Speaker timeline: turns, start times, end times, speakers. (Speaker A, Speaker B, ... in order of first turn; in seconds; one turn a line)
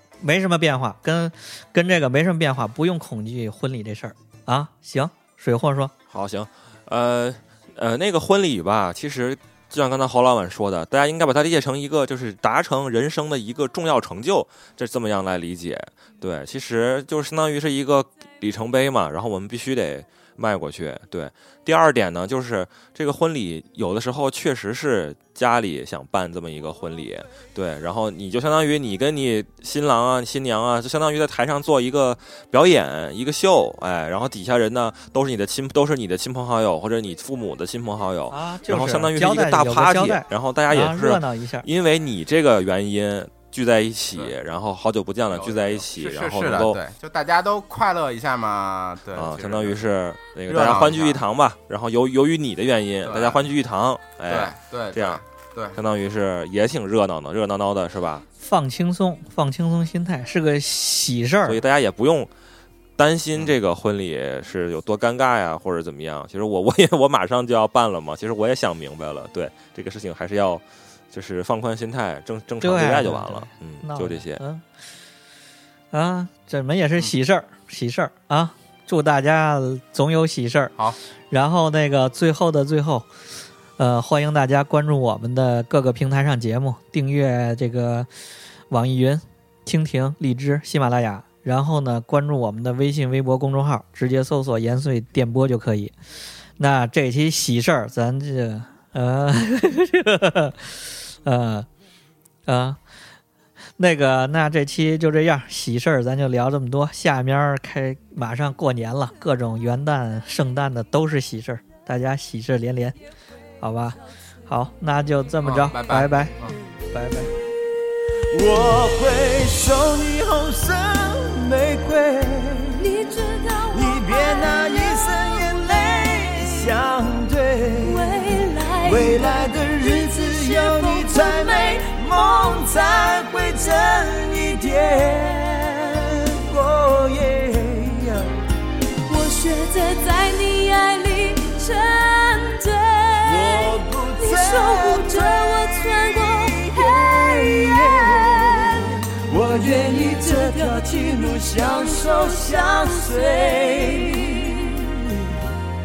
Speaker A: 0.2-5.9
Speaker B: 6.1-46.8
Speaker A: 38.3-41.7
Speaker C: 45.3-49.8
Speaker B: 49.1-55.2
Speaker C: 50.5-51.2
Speaker C: 53.0-53.5
Speaker C: 54.3-55.8
Speaker B: 55.7-58.2
Speaker A: 58.4-61.6
Speaker B: 61.5-62.3
Speaker B: 63.0-74.4
Speaker A: 72.6-74.7
Speaker A: 75.9-80.7
Speaker A: 81.3-83.1
Speaker A: 83.8-88.1
Speaker A: 88.7-95.9
Speaker A: 96.6-101.7
Speaker A: 102.5-102.8
Speaker A: 103.8-113.0
Speaker A: 113.6-116.3
Speaker C: 115.4-116.6
Speaker A: 116.9-117.3
Speaker D: 118.3-122.8
Speaker E: 122.8-126.8
Speaker D: 123.7-138.3
Speaker E: 127.8-132.8
Speaker E: 139.1-154.0
Speaker D: 143.2-155.4